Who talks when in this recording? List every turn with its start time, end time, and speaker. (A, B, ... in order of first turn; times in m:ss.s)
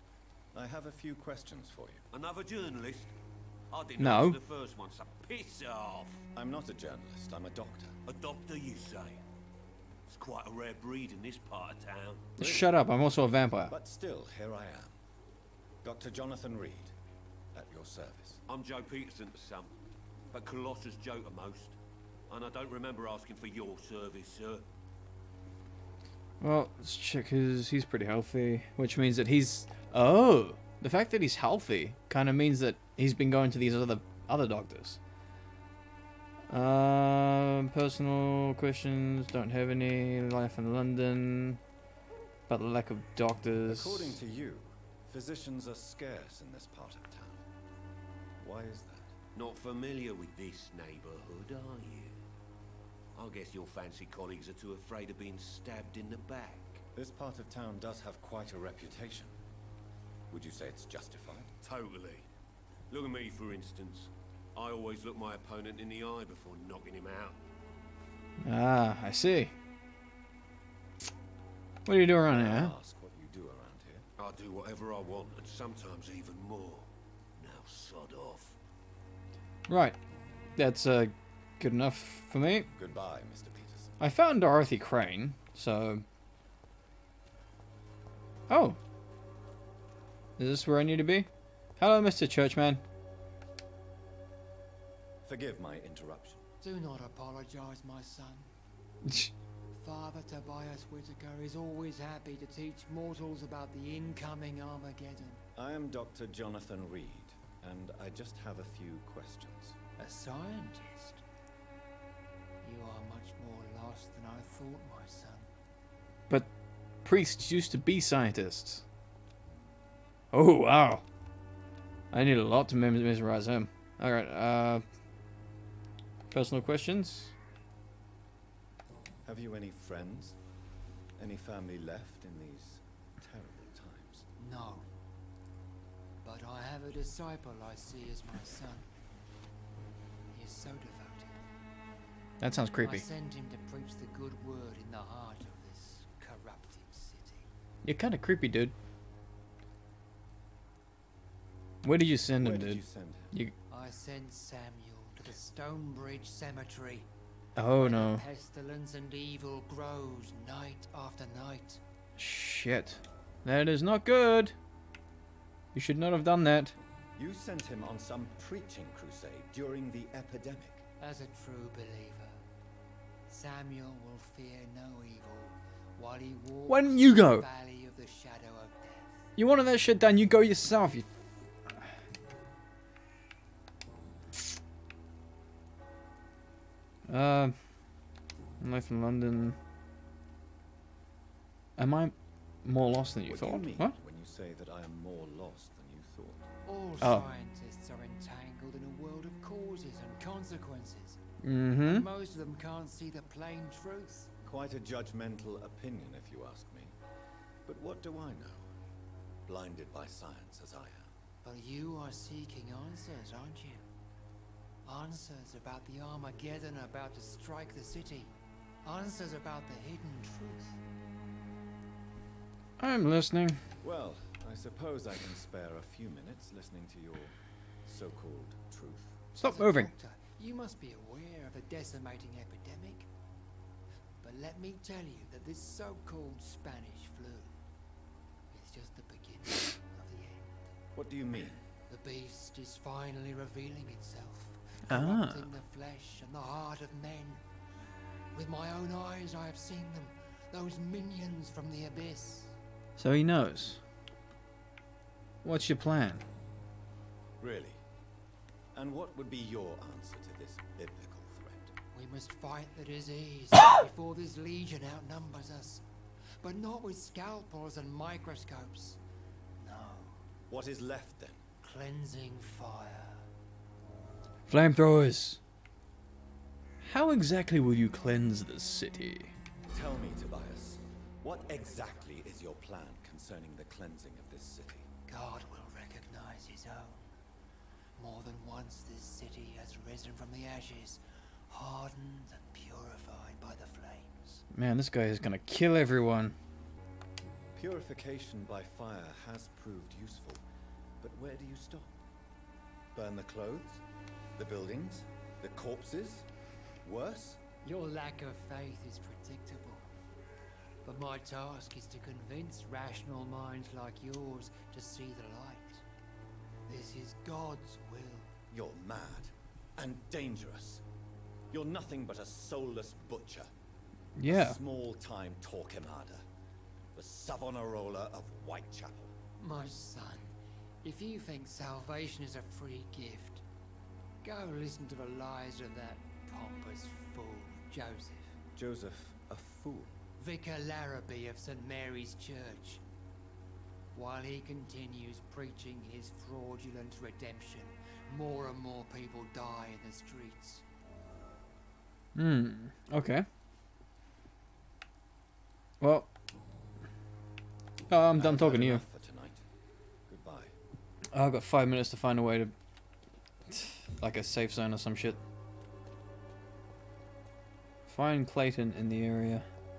0:00.5-0:02.0 A
0:02.1-0:03.1 B
0:03.7-0:06.2 B
0:04.0-0:04.4 C
0:06.3-0:07.9 A
0:08.0-0:09.2 B
0:10.1-0:12.3 B
0:12.4-0:13.7 C
0:12.4-0:12.7 A
0:13.7-0:15.0 A
0:15.8-0:16.9 A
0:17.5-0:18.4 A
0:18.5-0:19.7 B
0:20.3-0:21.8 B
0:22.3-0:24.6 B
0:26.4-0:35.0 C
0:36.5-0:41.6 C
0:42.5-0:44.2 C
0:43.6-0:47.4 A
0:48.4-0:49.2 A
0:49.3-0:52.2 B
0:53.1-0:56.8 B
0:56.9-0:59.4 A
1:00.3-1:01.5 A
1:01.6-1:02.3 B
1:02.9-1:07.4 B
1:08.4-1:09.5 C
1:11.8-1:12.7 C
1:12.3-1:14.0 A
1:14.2-1:18.6 B
1:19.7-1:20.0 C
1:20.6-1:22.7 C
1:22.7-1:24.0 A
1:24.0-1:26.0 C
1:28.5-1:28.8 C
1:30.4-1:32.8 C
1:35.2-1:36.4 A
1:36.6-1:38.5 D
1:39.0-1:39.3 C
1:39.7-1:45.4 D
1:45.5-1:49.8 A
1:50.0-1:51.2 D
1:52.6-1:55.5 D
1:57.0-1:58.8 C
2:00.3-2:01.0 C
2:02.1-2:04.8 C
2:06.3-2:07.3 C
2:09.2-2:10.4 A
2:11.2-2:14.3 A
2:14.4-2:14.8 D
2:16.2-2:18.9 D
2:20.3-2:21.4 D
2:22.4-2:23.0 C
2:22.8-2:27.5 D
2:27.8-2:28.7 C
2:31.8-2:33.5 C
2:32.4-2:33.3 A
2:33.7-2:37.1 D
2:37.6-2:38.2 C
2:37.7-2:41.8 D
2:42.2-2:44.5 C
2:45.7-2:46.7 C
2:47.2-2:50.8 A
2:51.0-2:52.4 D
2:53.3-2:59.2 D
2:56.7-2:57.4 C
2:59.4-3:01.1 C
3:07.1-3:07.6 C
3:08.6-3:09.6 C
3:11.8-3:12.1 C
3:12.6-3:13.9 C
3:13.2-3:16.5 A
3:16.6-3:21.2 D
3:17.0-3:17.2 C
3:21.4-3:22.0 C
3:21.8-3:24.3 D
3:24.4-3:27.0 A
3:27.6-3:28.7 A
3:29.4-3:31.1 A
3:31.4-3:33.8 D
3:34.8-3:40.8 D
3:42.8-3:43.6 C
3:43.8-3:49.2 A
3:49.4-3:49.9 C
3:49.4-3:53.1 D
3:54.2-3:57.5 D
3:58.5-4:00.7 D
4:00.9-4:01.6 A
4:01.9-4:07.4 D
4:04.9-4:05.4 C
4:08.3-4:12.6 D
4:13.0-4:13.8 C
4:15.4-4:16.2 C
4:17.4-4:17.8 A
4:18.7-4:21.7 A
4:21.9-4:25.8 D
4:26.4-4:29.0 D
4:29.6-4:30.2 D
4:30.5-4:31.4 A
4:31.6-4:33.2 D
4:34.5-4:35.4 C
4:36.8-4:39.3 C
4:39.7-4:44.9 A
4:45.1-4:47.1 D
4:48.0-4:54.4 D
4:54.5-4:56.3 C
4:57.5-5:00.4 A
5:01.0-5:02.0 A
5:02.9-5:03.8 A
5:04.4-5:06.3 A
5:06.8-5:07.4 A
5:07.6-5:09.9 D
5:10.8-5:15.8 D
5:16.7-5:18.3 D
5:18.5-5:20.8 A
5:21.5-5:23.5 A
5:24.2-5:24.6 C
5:24.2-5:26.2 A
5:26.9-5:29.1 A
5:29.4-5:33.4 D
5:34.2-5:38.4 D
5:38.5-5:39.9 A
5:40.2-5:42.8 D
5:43.9-5:50.6 D
5:52.2-5:53.2 C
5:55.8-5:56.1 C
5:57.9-5:58.8 C
5:58.1-5:59.4 A
6:00.1-6:00.5 A
6:01.1-6:02.5 C
6:03.5-6:05.2 C
6:07.9-6:09.4 C